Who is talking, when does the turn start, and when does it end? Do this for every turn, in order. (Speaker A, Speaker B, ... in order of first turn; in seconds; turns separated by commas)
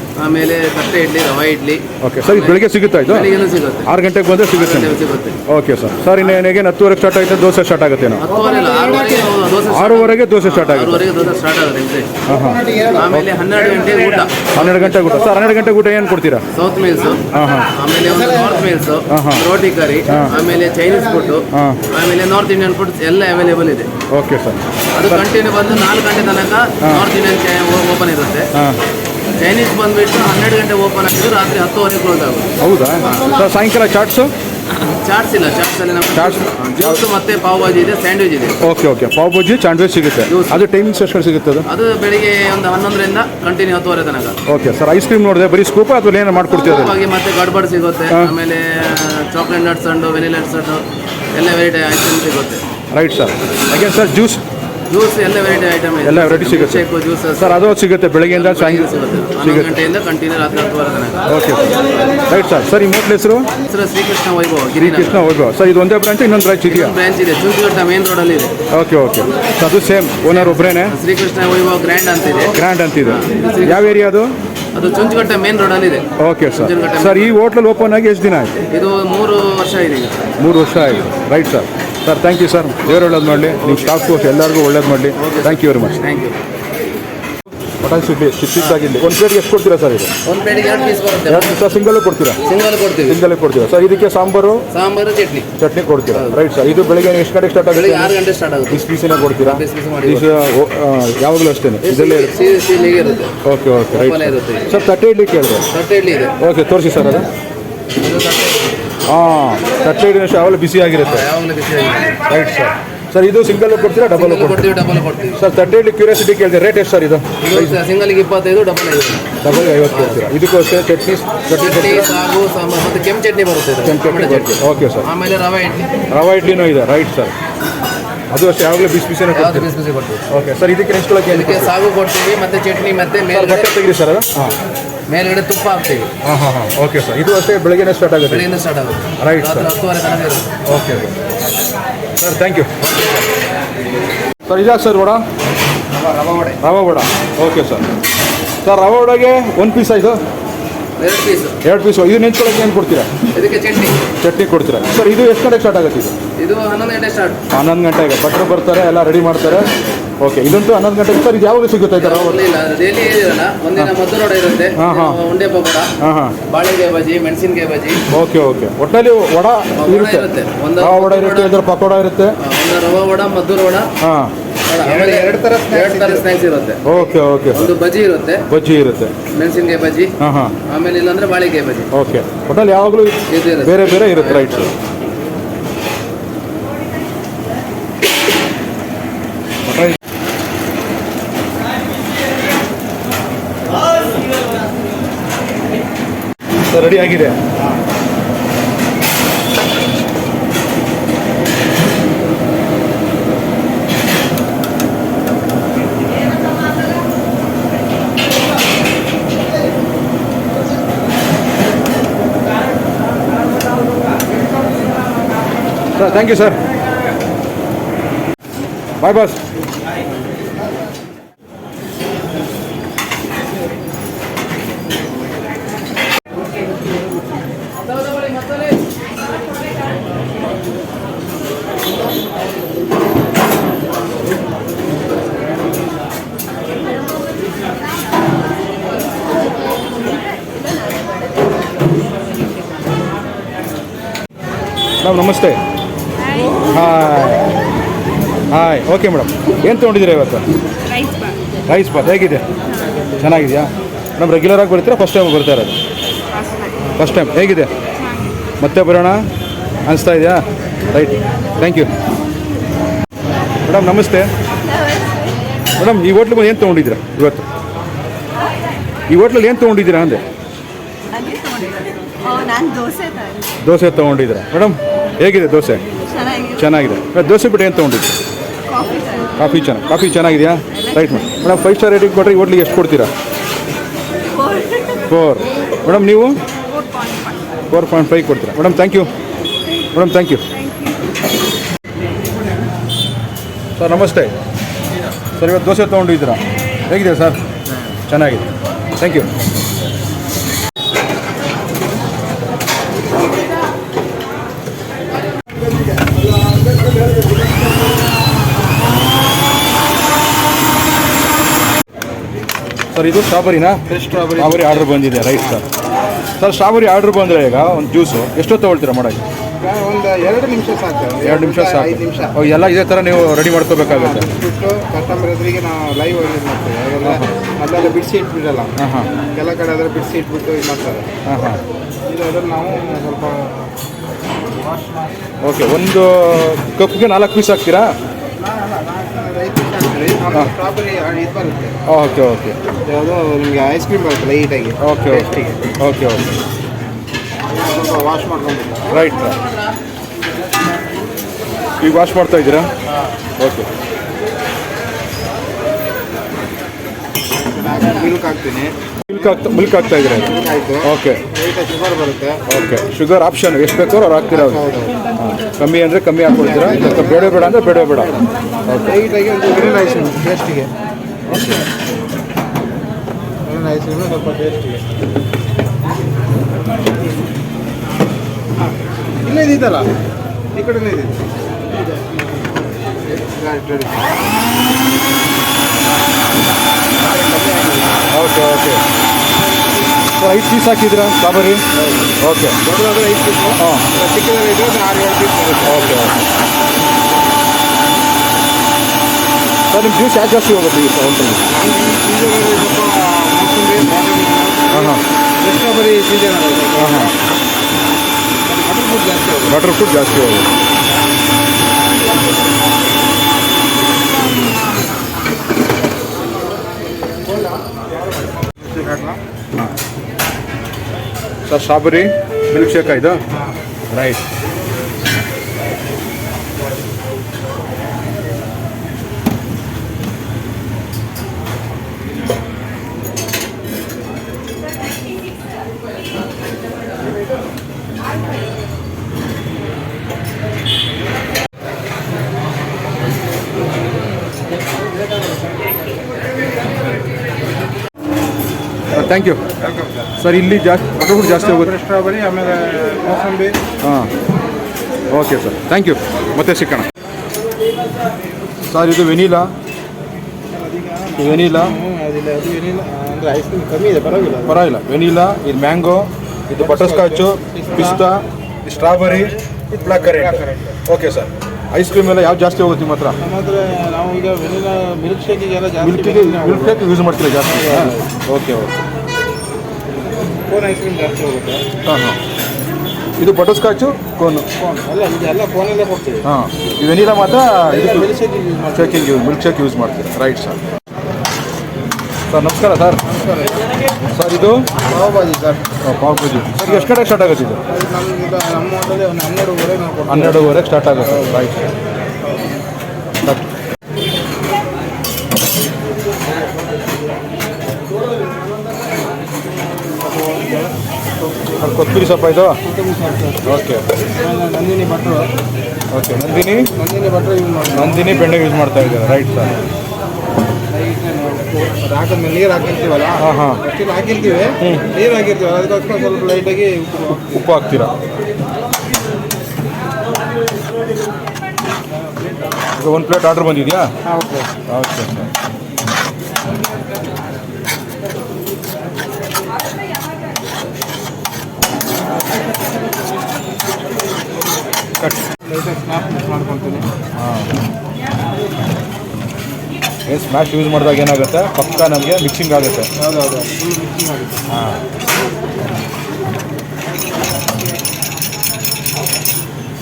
Speaker A: 0.2-3.9, Speaker B: 2.0-3.3, Speaker B: 3.9-8.2, Speaker A: 4.5-5.4, Speaker A: 8.2-12.1, Speaker B: 9.7-11.0, Speaker B: 12.3-13.3, Speaker A: 12.9-15.0, Speaker B: 14.5-16.4, Speaker A: 16.5-23.9, Speaker B: 17.3-17.7, Speaker B: 19.1-19.4, Speaker B: 20.1-20.3, Speaker B: 21.5-21.8, Speaker B: 24.1-25.2, Speaker A: 24.9-28.5, Speaker A: 29.4-32.5, Speaker B: 32.6-34.3, Speaker A: 34.8-38.6, Speaker B: 36.1-37.0, Speaker B: 38.6-41.6, Speaker A: 40.3-40.6, Speaker A: 41.6-44.4, Speaker B: 44.5-47.0, Speaker A: 46.5-52.6, Speaker B: 48.1-48.3, Speaker B: 52.9-54.4, Speaker A: 54.9-57.6, Speaker B: 56.0-56.8, Speaker B: 57.4-59.8, Speaker A: 58.3-62.2, Speaker B: 61.3-63.5, Speaker A: 63.6-65.3, Speaker B: 64.8-67.0, Speaker A: 66.7-68.5, Speaker B: 68.7-71.0, Speaker A: 70.2-74.0, Speaker B: 72.5-74.3, Speaker A: 74.7-77.3, Speaker B: 76.2-78.6, Speaker A: 78.7-80.2, Speaker B: 80.4-86.0, Speaker A: 85.2-86.4, Speaker B: 87.8-90.1, Speaker A: 90.2-91.6, Speaker B: 91.3-92.4, Speaker A: 92.4-93.2, Speaker B: 93.1-94.6, Speaker A: 94.7-95.5, Speaker B: 95.6-98.1, Speaker A: 96.1-96.4, Speaker A: 97.7-98.8, Speaker B: 98.7-102.4, Speaker A: 99.4-100.3, Speaker A: 101.8-103.3, Speaker B: 103.4-105.7, Speaker A: 103.9-104.7, Speaker A: 105.7-106.3, Speaker B: 106.4-107.3, Speaker A: 108.0-108.7, Speaker B: 109.1-111.3, Speaker A: 111.0-112.2, Speaker B: 112.2-114.7, Speaker A: 113.9-115.4, Speaker B: 115.3-117.8, Speaker A: 117.4-119.4, Speaker B: 119.4-122.1, Speaker A: 119.9-120.3, Speaker A: 121.5-125.9, Speaker B: 123.8-125.0, Speaker B: 126.1-127.3, Speaker B: 128.3-129.7, Speaker A: 129.3-130.2, Speaker B: 130.3-131.7, Speaker A: 131.3-133.7, Speaker B: 133.3-134.6, Speaker A: 135.1-136.1, Speaker B: 136.2-138.5, Speaker A: 138.3-140.5, Speaker B: 139.2-139.7, Speaker B: 140.7-141.2, Speaker B: 142.2-142.8, Speaker B: 144.4-145.2, Speaker A: 146.1-146.6, Speaker B: 146.6-147.9, Speaker B: 148.6-150.2, Speaker A: 151.0-151.6, Speaker B: 151.6-153.1, Speaker A: 153.3-154.0, Speaker B: 154.2-156.1, Speaker A: 156.4-157.4, Speaker B: 157.5-159.7, Speaker B: 160.2-162.4, Speaker A: 161.9-165.9, Speaker B: 164.8-165.2, Speaker B: 166.0-166.3, Speaker A: 166.5-168.0, Speaker B: 168.1-172.3, Speaker A: 169.8-171.6, Speaker A: 172.4-173.9, Speaker B: 174.0-174.3, Speaker A: 174.7-178.4, Speaker C: 174.8-176.2, Speaker B: 176.8-177.7, Speaker B: 178.5-179.1, Speaker A: 179.3-180.1, Speaker B: 180.2-180.5, Speaker A: 180.7-181.9, Speaker B: 181.9-184.7, Speaker A: 183.3-184.7, Speaker B: 189.6-190.0, Speaker B: 196.7-197.4, Speaker B: 215.9-216.6, Speaker B: 219.0-219.4, Speaker B: 245.0-245.6, Speaker B: 246.6-247.5, Speaker B: 248.5-250.4, Speaker B: 251.7-252.4, Speaker B: 253.2-255.8, Speaker B: 256.9-257.7, Speaker B: 258.6-259.3, Speaker B: 259.9-261.9, Speaker B: 263.6-264.3, Speaker B: 265.8-267.4, Speaker B: 269.1-270.2, Speaker D: 271.1-271.7, Speaker D: 272.3-273.4, Speaker B: 273.6-275.8, Speaker B: 276.4-278.1, Speaker D: 278.8-279.2, Speaker B: 279.4-283.1, Speaker B: 285.1-286.4, Speaker B: 287.7-289.1, Speaker B: 289.9-290.5, Speaker B: 293.8-294.3, Speaker B: 295.4-298.5, Speaker B: 299.0-299.3, Speaker B: 312.9-315.6, Speaker C: 313.9-314.9, Speaker B: 316.4-319.2, Speaker C: 319.6-322.3, Speaker B: 321.2-324.3, Speaker C: 323.9-328.7, Speaker B: 327.0-327.4, Speaker B: 328.8-329.1, Speaker C: 329.3-331.1, Speaker B: 331.2-331.6, Speaker C: 332.1-333.7, Speaker C: 334.6-335.1, Speaker B: 335.4-337.9, Speaker C: 338.4-341.8, Speaker B: 341.9-342.6, Speaker C: 342.9-345.6, Speaker B: 344.8-346.3, Speaker C: 347.5-348.9, Speaker B: 348.9-349.4, Speaker B: 351.8-352.7, Speaker B: 353.4-353.7, Speaker C: 357.4-358.7, Speaker B: 359.1-361.2, Speaker C: 360.3-362.4, Speaker B: 362.5-364.6, Speaker C: 364.3-364.9, Speaker B: 365.2-368.1, Speaker C: 366.4-367.6, Speaker B: 368.7-369.0, Speaker C: 368.9-370.7, Speaker B: 371.3-371.6, Speaker C: 373.4-375.0, Speaker C: 379.2-379.9, Speaker C: 380.5-381.3, Speaker C: 383.2-384.2, Speaker C: 387.0-388.1, Speaker B: 388.1-388.8, Speaker B: 390.2-391.6, Speaker B: 392.2-392.6, Speaker C: 392.6-396.0, Speaker B: 393.6-393.9, Speaker B: 395.6-396.3, Speaker B: 399.7-401.5, Speaker C: 401.5-404.8, Speaker B: 404.7-405.0, Speaker C: 405.4-406.9, Speaker B: 406.8-407.1, Speaker C: 408.4-409.5, Speaker B: 409.5-410.5, Speaker C: 418.6-419.2, Speaker B: 421.4-423.2, Speaker B: 423.9-424.2, Speaker B: 448.9-449.6, Speaker C: 449.6-450.1, Speaker B: 450.2-451.7, Speaker C: 451.1-453.6, Speaker B: 453.8-454.1, Speaker B: 455.1-456.9, Speaker B: 458.6-459.5, Speaker C: 460.5-464.6, Speaker B: 461.2-461.8, Speaker B: 464.4-473.2, Speaker C: 466.6-468.0, Speaker C: 470.1-470.6, Speaker C: 473.2-476.9, Speaker B: 475.8-478.7, Speaker C: 477.5-478.0, Speaker C: 480.5-481.6, Speaker B: 481.9-482.1, Speaker B: 483.2-484.4, Speaker C: 484.6-486.2, Speaker B: 486.2-488.1, Speaker C: 487.7-489.0, Speaker B: 488.7-490.6, Speaker B: 492.3-493.0, Speaker C: 493.1-493.6, Speaker B: 494.1-494.7, Speaker C: 494.9-495.6, Speaker B: 495.8-497.6, Speaker C: 497.7-500.4, Speaker B: 500.1-501.7, Speaker B: 503.2-503.5, Speaker C: 510.0-510.7, Speaker B: 511.6-512.6, Speaker C: 512.6-513.4, Speaker B: 513.4-513.9, Speaker C: 514.2-515.3, Speaker B: 515.9-516.7, Speaker C: 516.8-518.1, Speaker B: 517.7-519.5, Speaker C: 520.7-527.2, Speaker B: 523.2-523.6, Speaker B: 524.6-524.9, Speaker B: 527.2-527.9, Speaker B: 532.8-533.9, Speaker C: 534.1-534.5, Speaker B: 534.7-535.3, Speaker C: 545.4-546.9, Speaker B: 547.1-547.5, Speaker B: 550.1-552.9, Speaker C: 553.0-554.4, Speaker B: 554.5-554.8